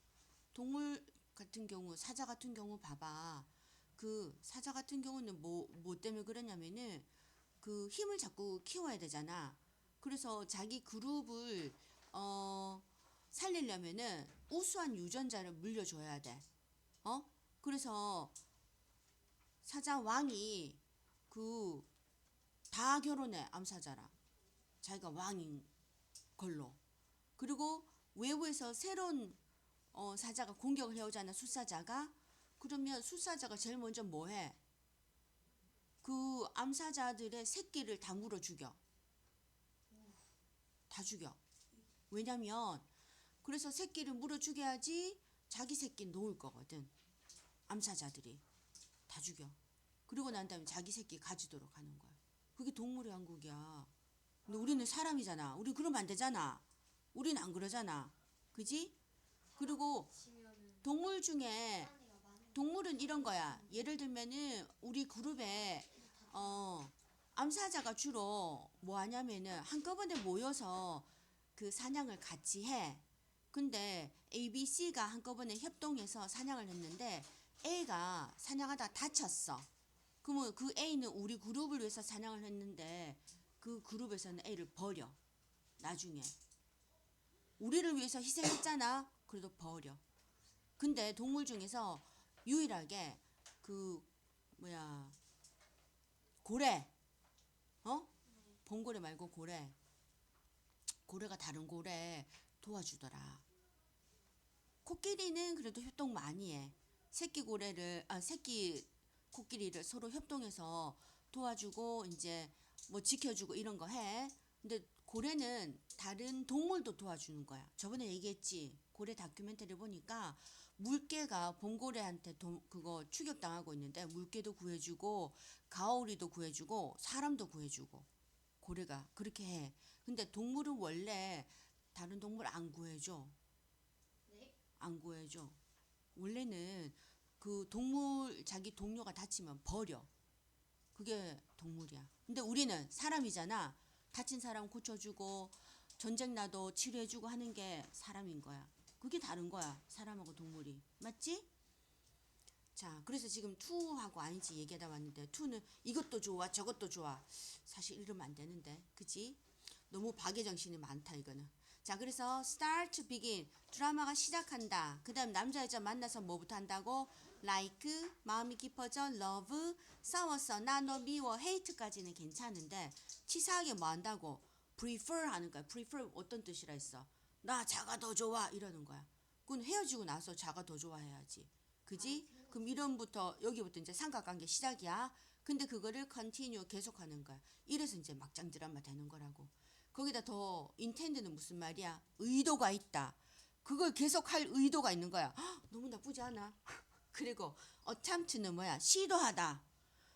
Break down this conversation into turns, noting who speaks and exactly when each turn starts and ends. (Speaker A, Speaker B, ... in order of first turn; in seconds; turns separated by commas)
Speaker A: 0.5-7.1, Speaker A: 7.6-16.4, Speaker A: 17.0-18.3, Speaker A: 19.6-21.9, Speaker A: 22.7-24.1, Speaker A: 24.8-25.7, Speaker A: 26.4-26.8, Speaker A: 27.4-29.4, Speaker A: 29.9-34.6, Speaker A: 36.0-38.8, Speaker B: 39.9-40.3, Speaker A: 40.9-41.4, Speaker A: 42.1-42.9, Speaker A: 43.4-46.9, Speaker A: 47.7-48.4, Speaker A: 49.1-49.5, Speaker A: 50.1-53.9, Speaker A: 54.5-56.6, Speaker B: 54.5-54.9, Speaker A: 57.1-58.9, Speaker B: 59.5-60.9, Speaker A: 59.6-60.1, Speaker A: 60.8-61.9, Speaker B: 61.7-63.8, Speaker A: 62.5-79.7, Speaker B: 65.5-66.7, Speaker A: 80.2-85.2, Speaker A: 85.8-86.3, Speaker A: 87.6-90.0, Speaker A: 90.8-95.2, Speaker A: 96.4-96.9, Speaker A: 97.8-98.1, Speaker B: 98.2-98.6, Speaker A: 98.6-99.7, Speaker A: 101.1-103.4, Speaker A: 104.8-128.1, Speaker A: 128.6-133.3, Speaker B: 134.2-134.5, Speaker A: 134.8-135.6, Speaker A: 136.1-140.1, Speaker A: 140.9-151.5, Speaker A: 152.7-199.6, Speaker B: 181.9-182.9